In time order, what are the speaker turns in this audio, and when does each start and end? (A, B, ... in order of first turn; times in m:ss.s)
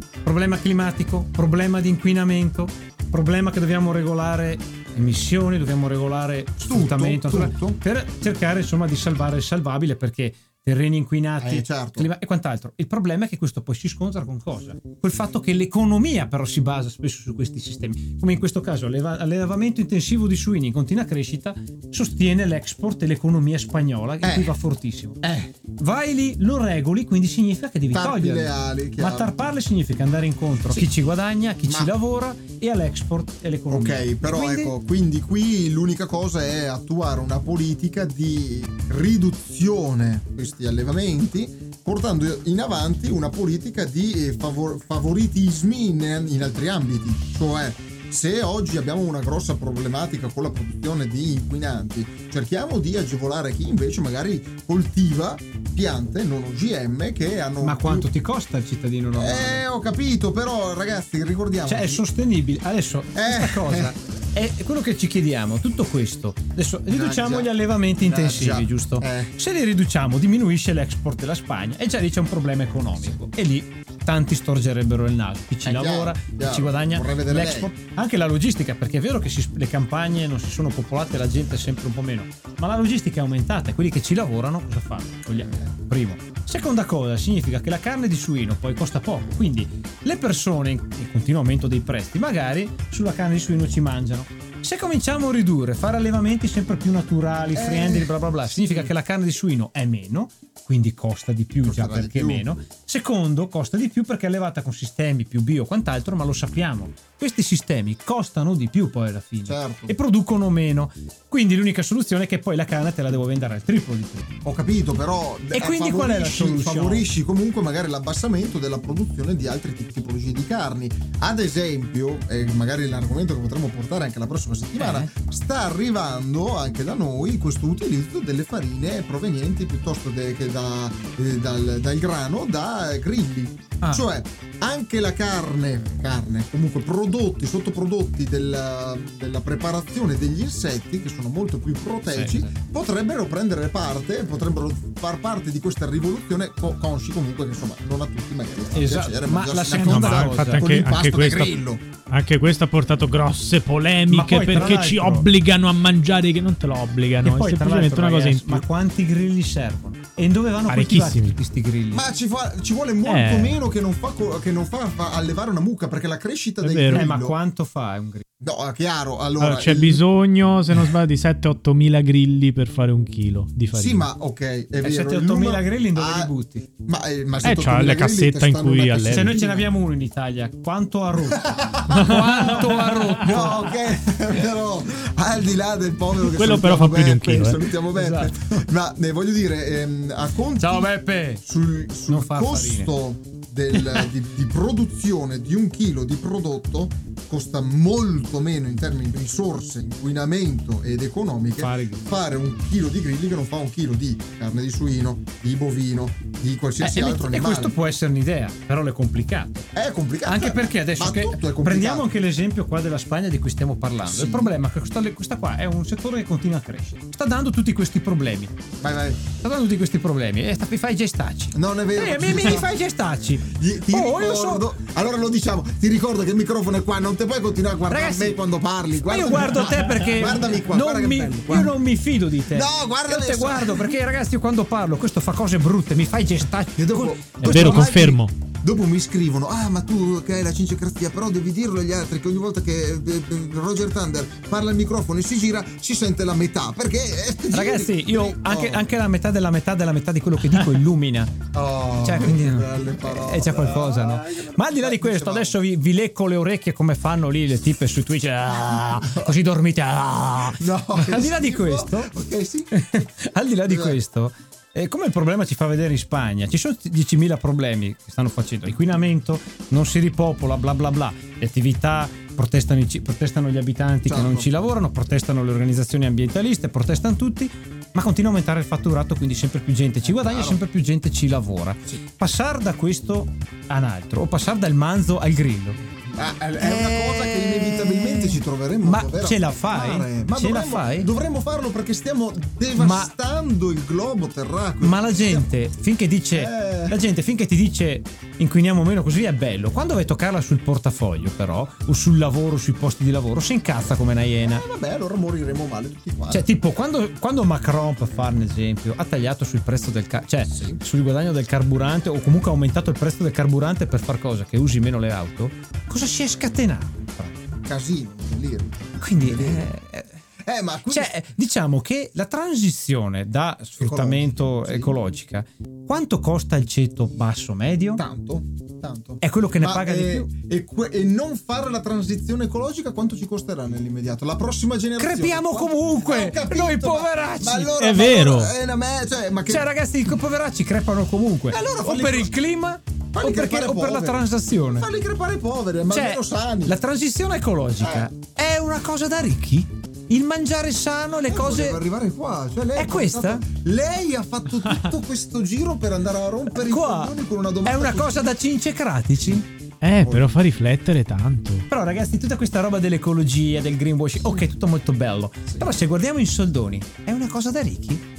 0:00.2-0:25.2 A
0:06.6-0:07.8 B
0:11.4-0:12.1 B
0:24.2-0:24.6 B
0:25.2-0:25.5 B
0:25.8-0:34.7 A
0:27.9-0:29.3 B
0:31.6-0:31.9 B
0:33.7-0:58.1 B
0:57.6-0:59.6 A
0:59.1-1:02.0 B
1:01.7-1:54.3 A
1:03.1-1:03.9 B
1:06.9-1:09.4 B
1:15.6-1:17.7 B
1:37.5-1:38.9 B
1:41.6-1:42.5 B
1:49.4-1:50.0 B
1:54.4-2:31.8 B
1:55.5-1:57.1 A
2:04.8-2:05.1 A
2:13.8-2:14.1 A
2:22.0-2:22.5 A
2:28.7-2:30.7 A
2:29.7-2:38.6 C
2:34.1-2:35.3 A
2:37.2-2:42.1 A
2:40.7-2:41.4 C
2:41.9-2:47.4 B
2:43.1-2:43.6 C
2:46.6-2:47.1 C
2:46.9-2:48.2 A
2:48.4-2:50.0 B
2:49.4-2:54.1 C
2:53.7-2:56.3 B
2:54.8-2:56.7 A
2:56.8-2:59.7 B
2:57.4-2:59.4 C
2:59.0-3:03.7 A
3:01.3-3:02.6 B
3:01.9-3:03.3 C
3:03.2-3:27.7 B
3:06.2-3:07.6 C
3:07.9-3:08.3 A
3:10.6-3:11.4 A
3:12.1-3:12.9 A
3:13.7-3:14.1 A
3:21.6-3:22.0 A
3:26.8-3:29.7 A
3:29.8-3:32.1 B
3:30.2-3:38.5 A
3:34.0-3:34.6 B
3:38.8-3:39.2 B
3:39.4-3:44.7 A
3:41.5-3:42.7 B
3:43.4-3:51.8 B
3:47.9-3:48.4 A
3:49.0-3:58.0 A
3:52.5-3:54.0 B
3:56.8-4:08.9 B
3:57.4-3:58.3 C
4:07.5-4:11.4 A
4:11.5-4:15.6 B
4:12.0-4:22.1 A
4:18.8-4:19.4 B
4:20.6-4:22.7 B
4:22.7-4:45.8 A
4:23.7-4:24.0 B
4:34.1-4:34.5 B
4:40.0-4:40.6 B
4:46.1-4:55.5 B
4:46.6-4:51.1 A
4:52.8-4:53.1 A
4:54.8-5:04.6 A
4:56.4-4:57.0 B
5:04.4-5:06.5 B
5:06.3-5:17.5 A
5:17.6-5:19.7 B
5:19.0-5:20.2 A
5:20.4-5:21.2 B
5:20.9-5:28.0 A
5:23.8-5:25.0 B
5:28.0-5:39.7 B
5:29.2-5:30.3 A
5:35.0-5:37.8 A
5:37.8-5:38.5 C
5:39.5-5:44.9 A
5:41.5-5:42.3 B
5:43.1-5:46.8 B
5:45.9-5:51.8 A
5:47.8-5:48.1 B
5:51.3-5:58.3 B
5:52.8-5:53.5 A
5:56.5-5:59.4 A
5:59.8-6:01.6 C
5:59.9-6:00.3 B
6:01.7-6:08.0 A
6:04.2-6:04.4 B